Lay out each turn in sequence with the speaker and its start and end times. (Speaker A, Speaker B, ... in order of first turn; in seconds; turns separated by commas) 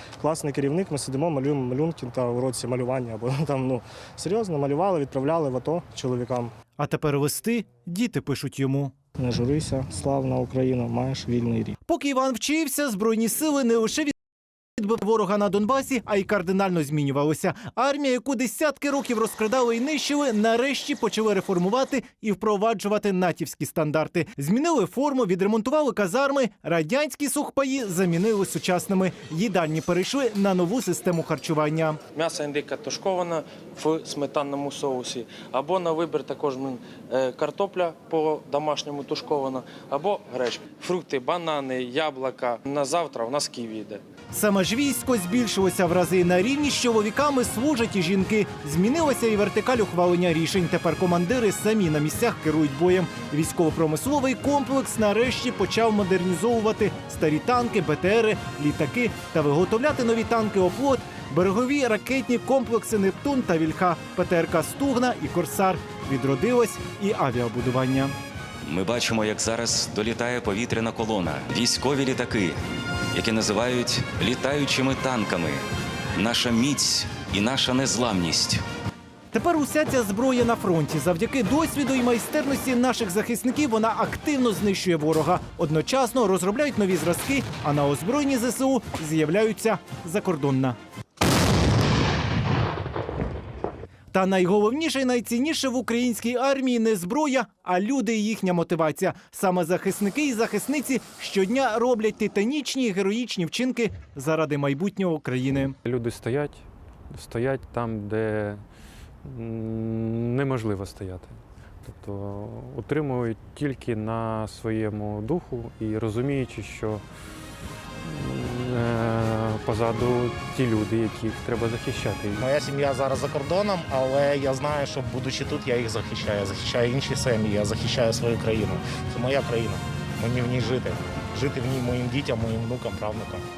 Speaker A: 0.2-6.5, Speaker B: 6.8-8.9, Speaker A: 9.2-11.8, Speaker B: 11.8-14.1, Speaker B: 14.8-32.0, Speaker C: 32.1-44.0, Speaker B: 44.3-68.1, Speaker D: 68.6-72.6, Speaker D: 73.1-75.6, Speaker D: 76.1-78.6, Speaker B: 79.3-90.8, Speaker B: 94.1-105.8, Speaker E: 105.8-108.6, Speaker E: 109.2-117.0, Speaker E: 118.0-122.5, Speaker F: 122.4-133.4